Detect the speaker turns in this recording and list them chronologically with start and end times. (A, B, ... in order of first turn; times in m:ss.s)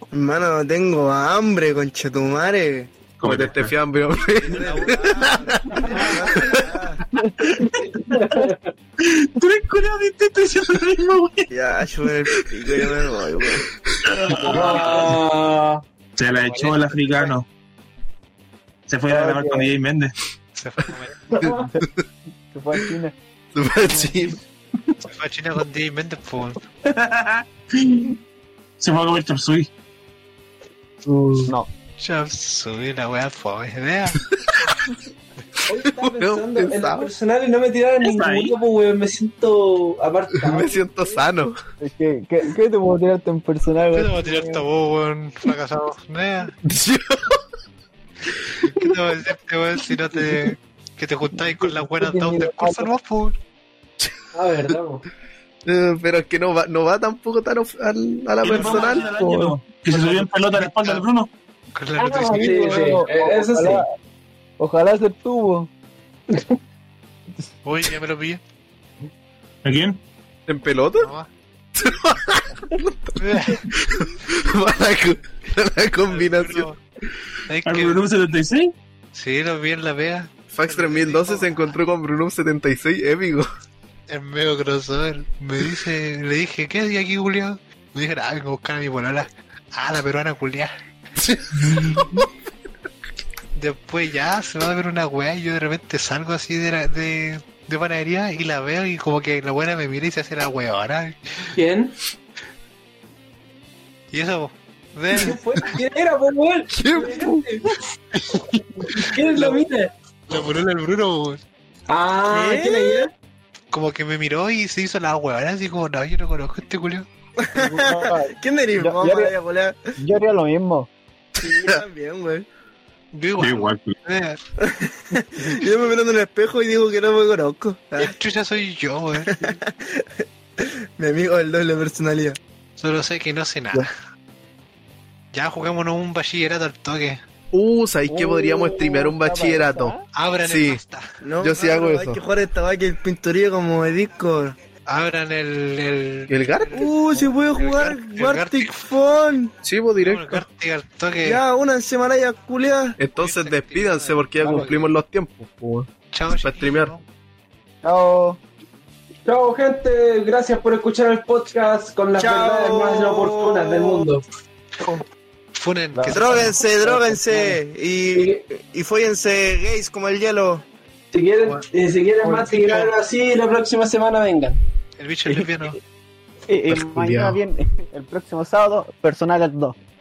0:00.1-0:02.9 A
0:03.2-0:03.7 B
0:03.2-0:06.6 C
0:04.4-0:06.6 D
0:04.4-0:07.0 A
0:07.4-0:08.0 B
0:08.0-0:08.7 E
0:09.0-0:11.5 B
0:11.5-0:13.7 A
0:14.0-0:15.1 B
0:14.4-0:15.8 E
0:16.2-0:17.5 B
0:16.4-0:17.3 D
0:18.9-0:20.2 B
0:19.1-0:19.7 F
0:20.6-0:21.5 D
0:21.3-0:21.7 E
0:22.5-0:23.1 F
0:23.5-0:24.4 C
0:25.0-0:26.6 D
0:26.8-0:28.2 B
0:28.8-0:29.7 B
0:31.0-0:31.5 C
0:32.0-0:34.2 D
0:35.6-0:41.1 E
0:35.9-0:37.1 C
0:38.0-0:38.6 B
0:40.3-0:41.6 C
0:41.8-0:44.6 F
0:43.9-0:46.6 D
0:46.6-0:47.4 C
0:48.6-0:53.4 D
0:51.5-0:52.9 F
0:54.3-0:55.0 E
0:55.7-0:59.1 C
0:58.4-1:01.3 B
0:59.2-0:59.5 F
0:59.9-1:01.0 D
1:01.7-1:02.7 D
1:02.0-1:03.8 E
1:02.1-1:03.9 F
1:04.6-1:05.7 F
1:06.3-1:06.5 E
1:07.6-1:08.4 D
1:09.6-1:10.0 B
1:10.5-1:11.1 C
1:11.0-1:11.3 D
1:11.8-1:16.7 C
1:13.2-1:13.6 D
1:16.1-1:16.8 D
1:17.5-1:18.0 D
1:17.6-1:18.7 B
1:19.1-1:21.7 D
1:20.5-1:23.4 C
1:24.1-1:30.7 D
1:31.6-1:32.1 B
1:33.5-1:41.5 D
1:41.5-1:41.9 E
1:44.1-1:45.4 D
1:45.1-1:47.8 E
1:45.2-1:45.6 C
1:46.7-1:47.5 C
1:48.1-1:49.6 D
1:49.0-1:49.9 E
1:50.3-1:51.4 D
1:51.9-1:53.1 E
1:52.3-1:53.0 A
1:53.7-1:57.0 D
1:57.4-1:59.8 A
1:57.5-1:59.3 F
2:00.0-2:00.9 F
2:01.4-2:02.4 A
2:01.5-2:01.8 C
2:03.1-2:04.4 D
2:03.4-2:04.0 B
2:04.6-2:08.1 A
2:08.0-2:09.5 D
2:09.2-2:12.4 A
2:12.8-2:13.9 D
2:15.3-2:17.2 D
2:17.5-2:20.8 C
2:18.1-2:20.0 F
2:20.1-2:21.0 D
2:21.2-2:24.6 A
2:21.4-2:22.2 C
2:24.8-2:28.8 D
2:26.3-2:26.9 C
2:26.7-2:29.5 A
2:29.6-2:30.4 C
2:30.0-2:31.4 D
2:31.2-2:33.0 A
2:33.0-2:36.9 C
2:33.1-2:34.9 D
2:34.4-2:34.7 F
2:36.1-2:37.0 D
2:37.8-2:38.4 F
2:39.2-2:44.2 E
2:42.2-2:44.1 A
2:45.5-2:46.6 D
2:45.9-2:47.6 F
2:46.1-2:50.6 A
2:51.1-2:54.6 E
2:52.3-2:52.8 D
2:55.0-2:55.8 D
2:56.5-2:59.8 F
2:56.7-2:57.4 C